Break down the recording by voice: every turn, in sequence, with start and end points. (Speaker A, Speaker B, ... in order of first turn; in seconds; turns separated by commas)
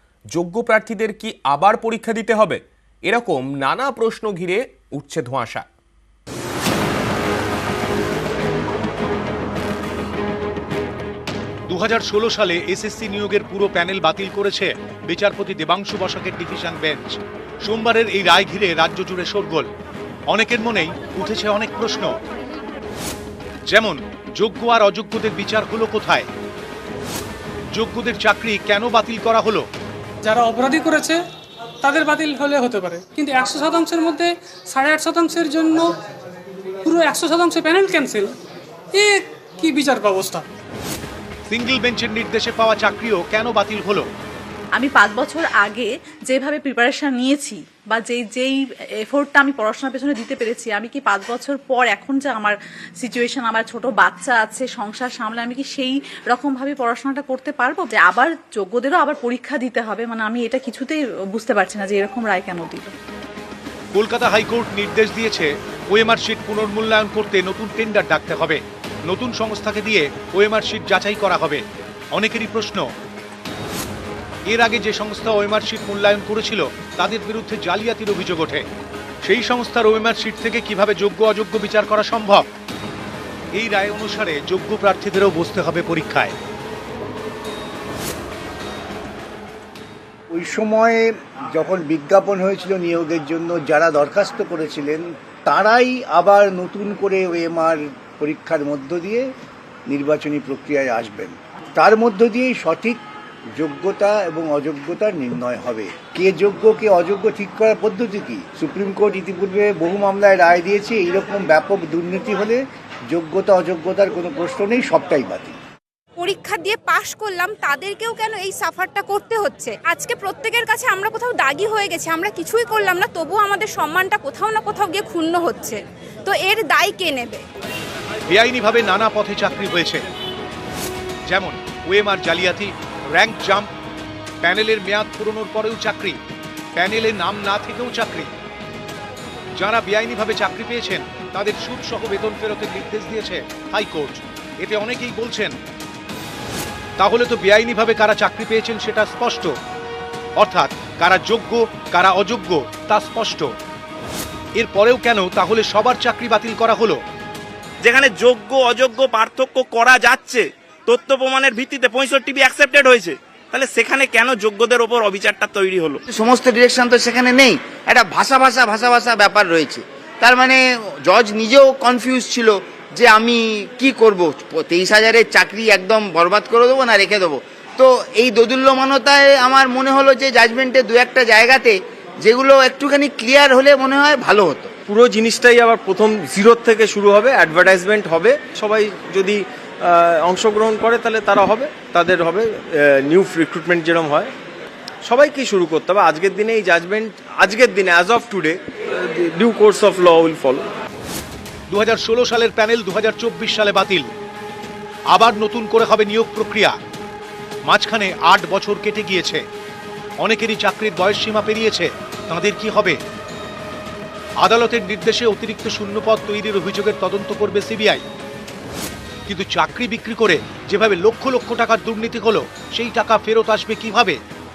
Speaker A: 0.3-5.7, Speaker B: 11.7-19.7, Speaker B: 20.3-22.1, Speaker B: 23.7-26.3, Speaker B: 27.7-29.7, Speaker C: 30.2-31.2, Speaker C: 31.8-35.9, Speaker C: 36.9-38.3, Speaker C: 39.0-40.5, Speaker B: 41.5-44.1, Speaker D: 44.8-62.9, Speaker B: 63.9-72.9, Speaker B: 74.5-78.7, Speaker B: 79.2-82.5, Speaker B: 83.5-86.3, Speaker E: 90.3-99.3, Speaker E: 99.9-103.0, Speaker E: 103.6-115.6, Speaker F: 116.2-127.4, Speaker B: 128.3-130.1, Speaker B: 131.3-133.7, Speaker B: 134.4-136.2, Speaker B: 136.8-138.3, Speaker B: 139.6-145.6, Speaker B: 147.0-149.6, Speaker B: 150.4-153.5, Speaker B: 154.6-157.0, Speaker G: 157.8-166.0, Speaker H: 166.1-184.7, Speaker I: 184.9-194.3, Speaker I: 195.1-200.7, Speaker B: 201.7-204.1, Speaker B: 205.1-206.8, Speaker B: 207.6-209.5, Speaker B: 210.2-213.0, Speaker B: 214.4-218.1, Speaker B: 219.3-224.2